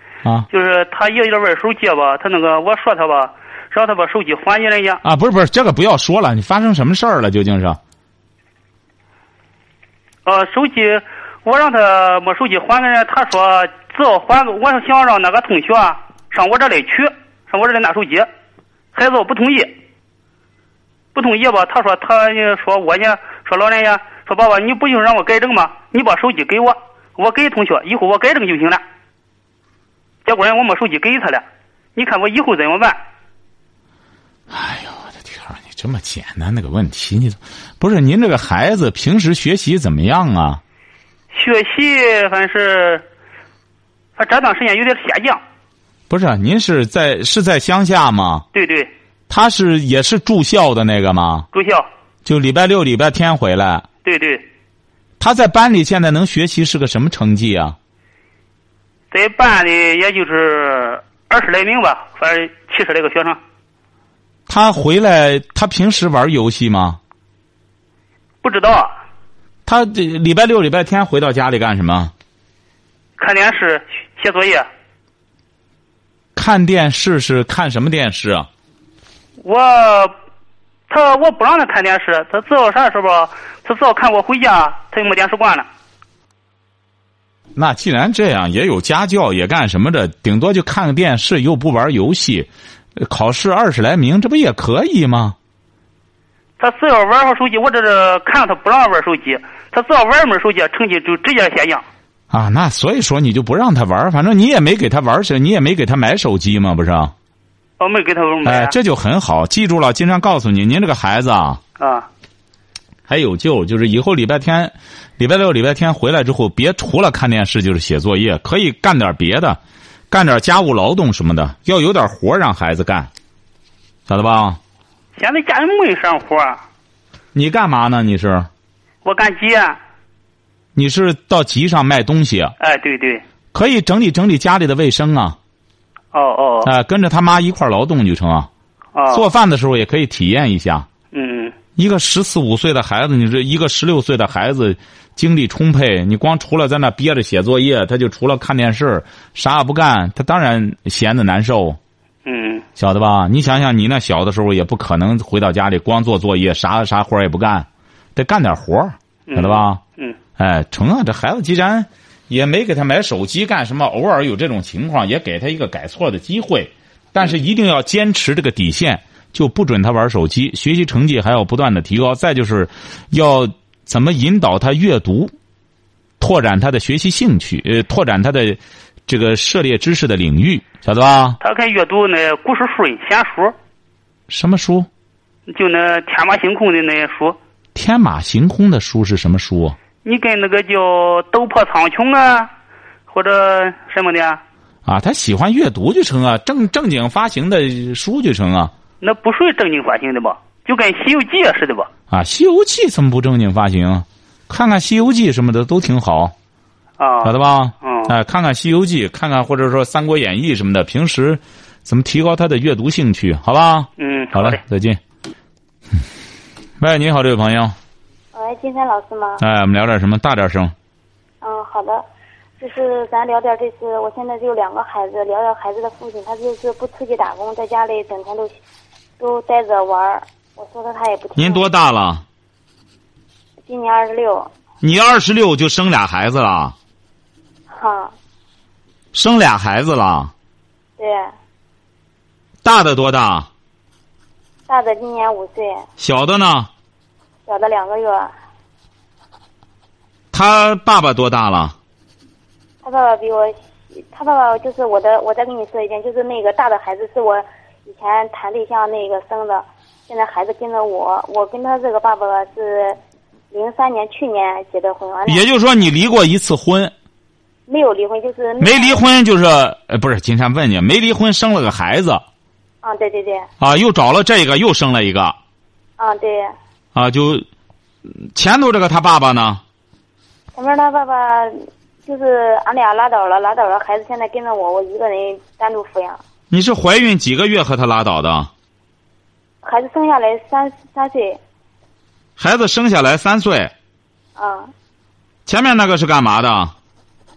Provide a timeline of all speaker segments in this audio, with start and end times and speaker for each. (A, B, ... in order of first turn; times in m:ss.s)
0:00.5-0:05.0 A
0:05.0-0:07.8 B
0:10.2-0:18.3 A
0:18.9-0:19.7 A
0:21.1-0:28.8 A
0:30.2-0:31.4 A
0:32.0-0:33.0 A
0:34.5-0:40.6 B
0:41.3-0:43.0 A
0:44.2-0:45.4 A
0:46.1-0:48.4 B
0:48.5-0:48.9 A
0:49.3-0:51.5 B
0:51.5-0:51.9 A
0:52.2-0:53.8 B
0:54.0-0:54.4 A
0:55.2-0:57.8 B
0:59.1-1:03.4 A
1:04.5-1:07.0 B
1:08.4-1:08.9 A
1:09.6-1:12.1 B
1:13.2-1:14.7 A
1:16.3-1:18.5 B
1:19.4-1:20.1 A
1:20.9-1:25.7 A
1:27.6-1:35.4 B
1:36.6-1:41.8 A
1:42.3-1:47.1 B
1:47.8-1:48.7 A
1:48.4-1:51.6 B
1:51.8-1:52.1 A
1:53.1-1:59.6 B
2:00.1-2:03.1 B
2:04.1-2:04.6 B
2:05.2-2:06.6 A
2:07.3-2:08.5 B
2:09.0-2:09.8 A
2:10.7-2:12.5 B
2:12.6-2:13.2 A
2:13.5-2:15.4 B
2:16.1-2:16.7 A
2:16.6-2:18.5 B
2:18.9-2:19.2 A
2:19.1-2:20.9 B
2:21.1-2:21.5 A
2:21.8-2:31.8 B
2:32.2-2:32.6 A
2:32.8-2:39.8 B
2:39.3-2:40.2 A
2:40.4-2:55.3 B
2:56.2-3:01.4 B
3:01.4-3:03.5 A
3:04.3-3:04.9 B
3:05.5-3:07.4 A
3:07.7-3:09.8 B
3:10.0-3:12.5 A
3:13.1-3:14.4 A
3:14.8-3:18.7 B
3:19.0-3:21.9 A
3:22.1-3:26.3 B
3:27.0-3:28.1 A
3:27.2-3:35.0 B
3:34.0-3:34.6 A
3:36.8-3:37.7 B
3:38.3-3:39.4 C
3:39.4-3:40.7 B
3:41.4-3:42.0 C
3:42.6-3:48.5 C
3:49.2-3:51.6 C
3:51.4-3:52.2 B
3:53.6-3:54.5 C
3:54.8-3:56.8 B
3:57.7-3:58.1 C
3:59.1-4:00.3 B
4:01.0-4:01.3 C
4:02.6-4:03.5 B
4:04.7-4:05.8 C
4:06.0-4:06.7 B
4:07.5-4:08.3 C
4:10.3-4:11.8 B
4:12.8-4:23.0 C
4:23.5-4:25.5 C
4:25.2-4:26.9 B
4:27.7-4:29.0 C
4:28.6-4:32.2 B
4:32.8-4:33.5 C
4:33.6-4:35.4 B
4:36.0-4:36.5 C
4:36.9-4:37.4 B
4:38.1-4:39.6 B
4:40.5-4:46.2 C
4:46.5-4:48.5 B
4:49.6-4:51.4 C
4:52.4-4:53.7 B
4:54.4-4:54.7 C
4:55.4-4:56.7 B